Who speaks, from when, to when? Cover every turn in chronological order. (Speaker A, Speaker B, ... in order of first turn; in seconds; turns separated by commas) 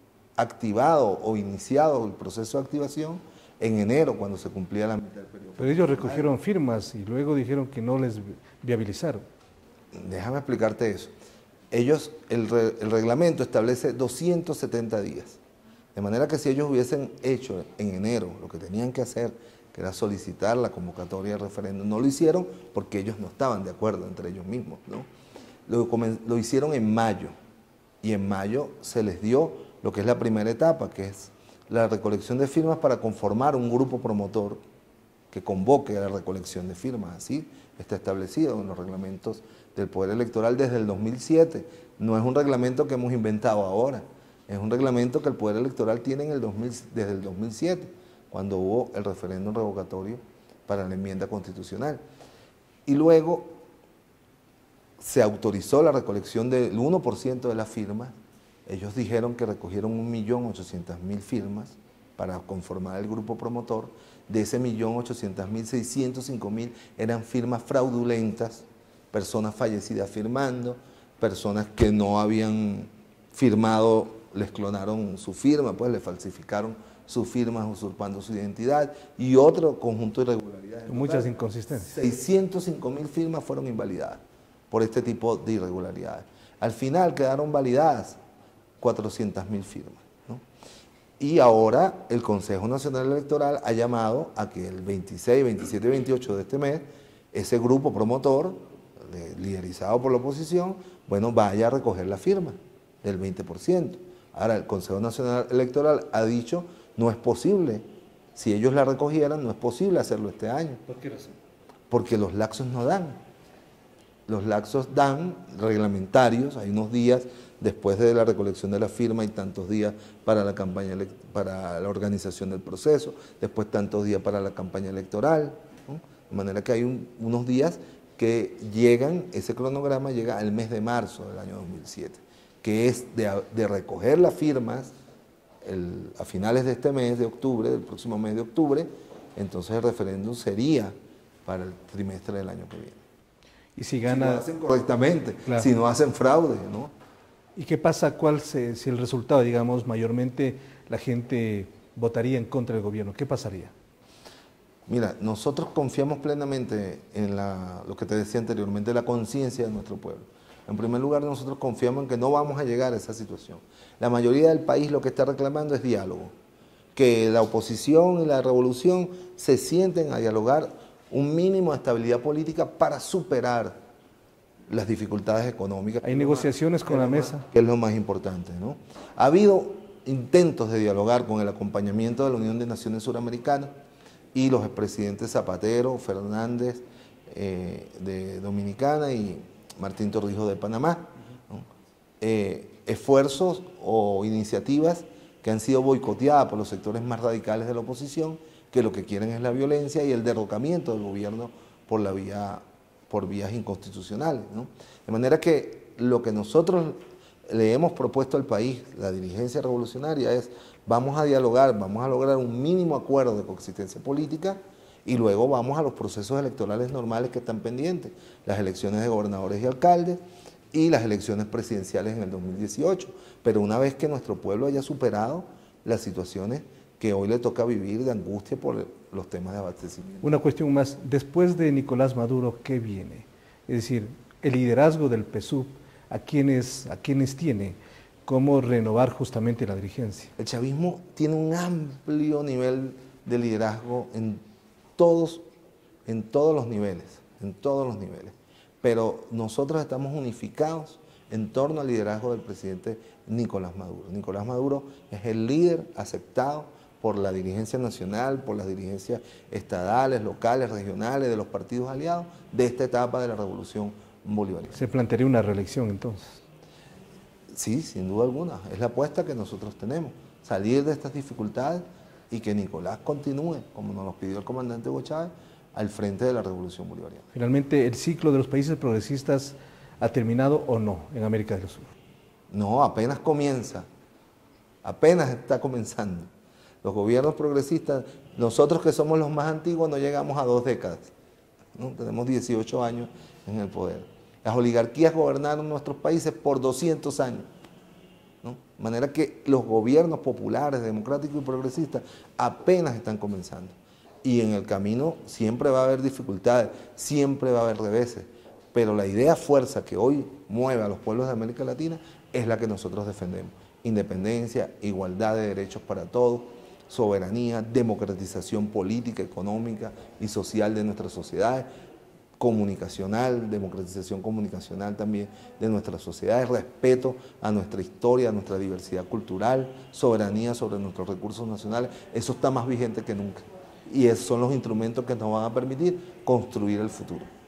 Speaker A: 0.4-6.3, Speaker B: 5.6-9.2, Speaker A: 9.9-11.1, Speaker A: 11.7-15.4, Speaker A: 15.9-25.1, Speaker A: 25.7-27.3, Speaker A: 28.0-34.6, Speaker A: 35.3-52.0, Speaker A: 52.9-53.5, Speaker A: 55.0-58.1, Speaker A: 58.7-88.2, Speaker B: 80.9-81.9, Speaker A: 88.8-90.4, Speaker A: 91.2-107.8, Speaker A: 108.3-110.8, Speaker B: 110.9-111.3, Speaker A: 111.9-113.2, Speaker A: 114.3-134.9, Speaker A: 135.6-140.9, Speaker A: 141.4-143.0, Speaker B: 143.8-144.4, Speaker A: 144.1-146.9, Speaker B: 147.6-153.7, Speaker A: 154.9-166.3, Speaker A: 166.9-173.8, Speaker A: 174.7-183.7, Speaker B: 176.0-177.4, Speaker A: 184.3-191.7, Speaker A: 192.2-220.2, Speaker A: 220.7-230.3, Speaker B: 230.2-240.3, Speaker A: 240.4-244.4, Speaker A: 245.0-245.4, Speaker A: 246.1-264.8, Speaker B: 264.7-266.4, Speaker A: 267.5-277.3, Speaker B: 277.3-281.9, Speaker A: 282.5-283.9, Speaker A: 284.8-286.3, Speaker A: 286.8-291.1, Speaker A: 291.7-297.5, Speaker A: 298.4-321.7, Speaker A: 322.4-337.3